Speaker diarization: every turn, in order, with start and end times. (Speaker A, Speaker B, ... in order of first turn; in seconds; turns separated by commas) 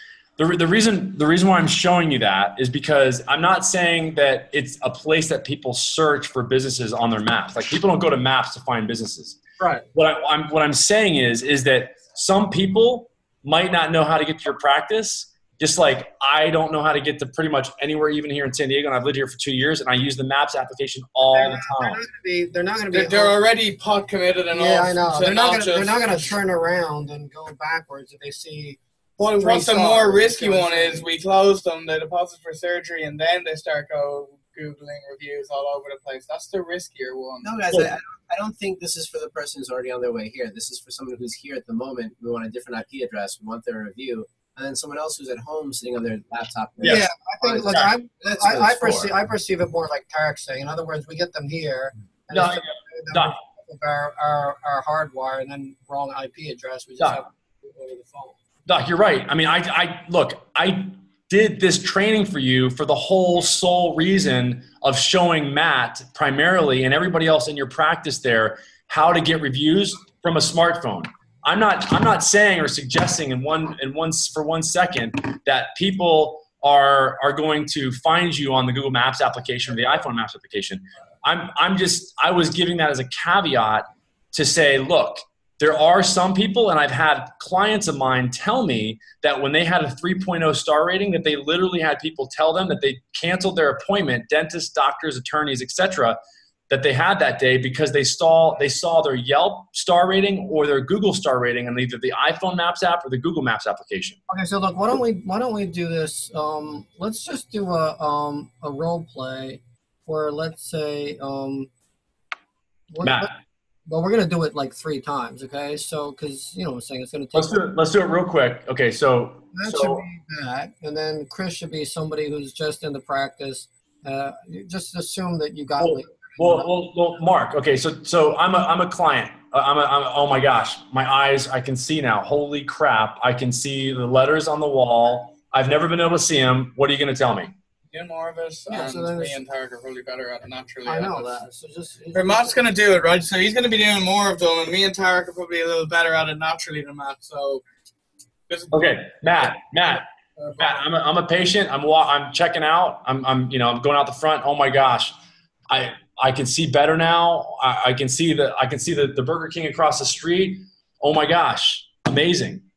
Speaker A: 0.4-9.4, Speaker A: 9.9-22.0, Speaker B: 21.3-23.4, Speaker C: 22.9-26.4, Speaker B: 24.5-31.1, Speaker C: 29.2-37.6, Speaker D: 37.4-47.7, Speaker A: 46.8-48.0, Speaker B: 46.8-58.4, Speaker D: 48.2-49.1, Speaker A: 48.5-49.1, Speaker A: 52.3-53.4, Speaker A: 58.7-104.2, Speaker B: 104.3-111.7, Speaker B: 112.9-113.3, Speaker A: 113.0-113.4, Speaker B: 113.9-117.7, Speaker A: 117.3-120.0, Speaker B: 119.5-126.7, Speaker A: 125.8-137.5, Speaker C: 137.9-141.3, Speaker B: 138.7-139.4, Speaker B: 140.8-142.7, Speaker C: 142.1-147.6, Speaker C: 148.5-149.5, Speaker A: 148.7-150.1, Speaker C: 150.4-150.8, Speaker A: 150.6-155.2, Speaker A: 155.7-162.7